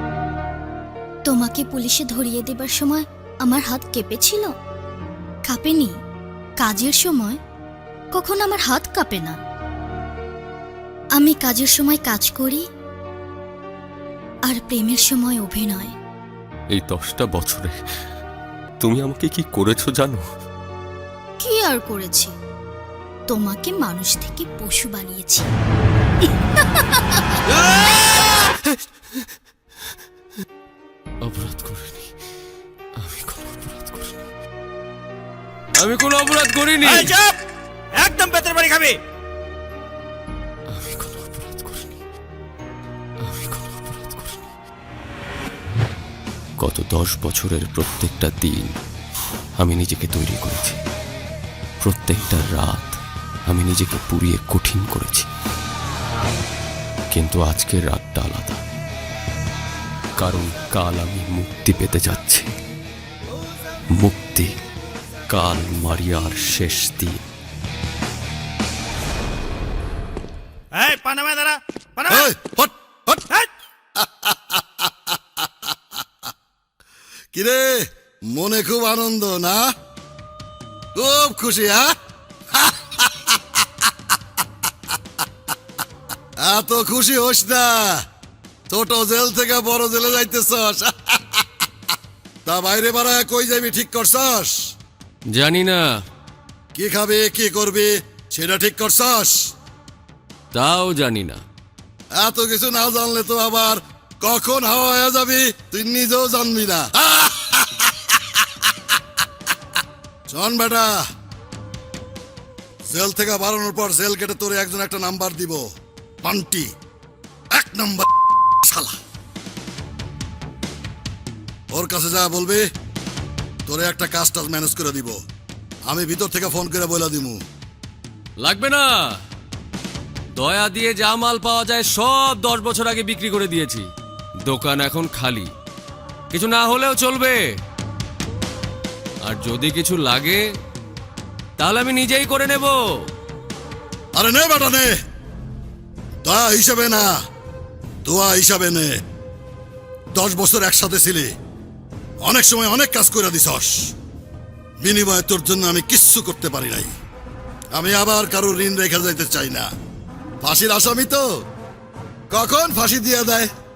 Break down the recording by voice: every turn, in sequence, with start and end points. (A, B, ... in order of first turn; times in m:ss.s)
0:01.2-0:04.6 A
0:05.4-0:06.0 A
0:06.6-0:07.4 A
0:08.1-0:09.4 A
0:11.2-0:12.6 A
0:14.5-0:16.0 A
0:16.7-0:17.8 B
0:18.8-0:20.3 B
0:21.4-0:22.3 A
0:23.3-0:25.5 A
0:26.6-0:27.2 A
0:27.7-0:28.7 B
0:31.2-0:32.1 B
0:33.0-0:34.3 B
0:35.7-0:37.1 B
0:36.8-0:37.4 C
0:37.9-0:39.0 C
0:40.7-0:42.0 B
0:43.2-0:44.5 B
0:46.6-0:48.7 B
0:49.6-0:50.8 B
0:51.8-0:55.3 B
0:57.1-0:58.6 B
1:00.2-1:02.5 B
1:04.0-1:04.6 B
1:05.3-1:07.2 B
1:10.7-1:12.2 C
1:12.1-1:13.3 D
1:14.0-1:14.6 D
1:17.3-1:19.7 D
1:21.0-1:21.9 D
1:22.6-1:23.4 D
1:26.4-1:28.0 D
1:28.7-1:31.4 D
1:32.4-1:34.8 D
1:35.3-1:36.0 B
1:36.8-1:39.5 D
1:40.5-1:41.4 B
1:42.1-1:47.9 D
1:50.3-1:51.0 D
1:52.9-1:55.7 D
1:56.2-1:56.7 D
1:57.5-1:59.0 D
2:01.7-2:02.7 D
2:03.7-2:05.2 D
2:05.9-2:07.4 D
2:08.4-2:09.2 B
2:10.4-2:13.9 B
2:14.4-2:15.5 B
2:16.3-2:17.6 B
2:19.2-2:20.5 B
2:21.6-2:23.1 B
2:24.2-2:25.0 D
2:26.2-2:27.2 D
2:28.0-2:29.0 D
2:30.1-2:31.3 D
2:32.2-2:33.9 D
2:34.8-2:36.9 D
2:37.7-2:39.7 D
2:40.4-2:41.4 D
2:42.3-2:43.5 D